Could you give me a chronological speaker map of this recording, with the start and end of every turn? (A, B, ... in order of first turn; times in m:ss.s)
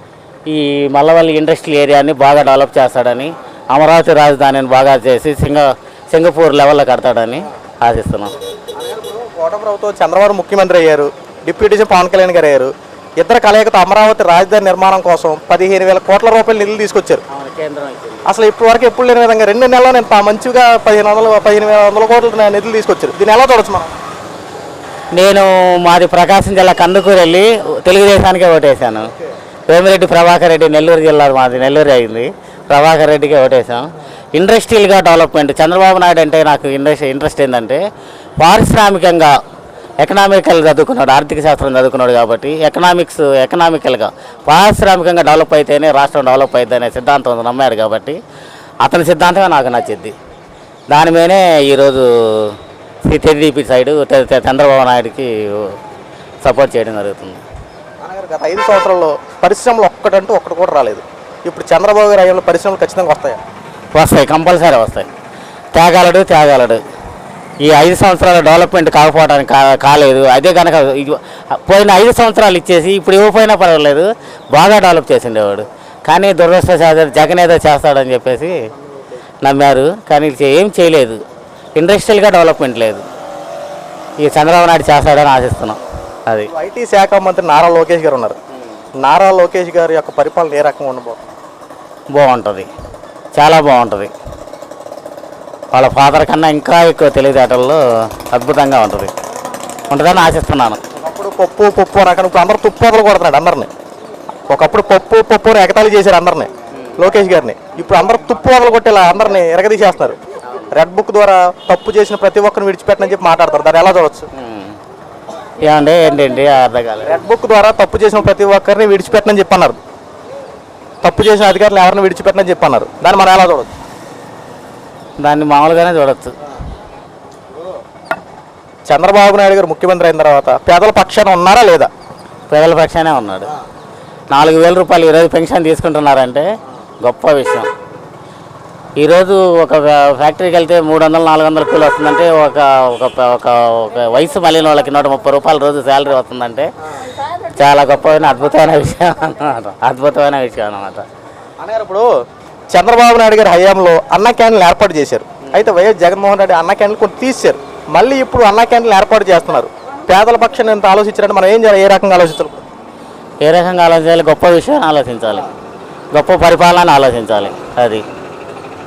0:00.5-0:08.3 A
0:08.7-0:17.2 B
0:17.3-0:18.3 A
0:18.2-0:23.9 B
0:25.1-0:29.1 A
0:29.7-0:37.8 A
0:38.4-0:39.3 A
0:40.0-0:48.2 A
0:48.8-0:50.1 A
0:50.9-0:55.8 A
0:56.4-0:57.4 A
0:58.0-1:03.4 B
1:03.9-1:05.1 A
1:05.7-1:06.8 A
1:07.6-1:18.6 A
1:19.4-1:21.2 A
1:21.8-1:23.0 A
1:24.2-1:26.5 A
1:26.4-1:28.4 B
1:29.0-1:31.3 B
1:32.1-1:32.7 A
1:33.3-1:34.1 A
1:35.7-1:39.1 A
1:39.9-1:40.8 A
1:40.9-1:43.7 B
1:44.5-1:50.2 B
1:50.7-1:54.3 B
1:54.3-1:54.8 A
1:55.6-1:57.2 A
1:57.0-1:59.8 B
2:01.0-2:03.7 B
2:05.2-2:06.3 A
2:08.8-2:11.9 B
2:12.5-2:13.5 A
2:14.3-2:16.5 A
2:17.0-2:17.7 A
2:19.0-2:26.7 A
2:27.5-2:31.0 A
2:31.6-2:32.1 B
2:32.7-2:42.6 B
2:43.4-2:45.5 A
2:46.1-2:48.0 A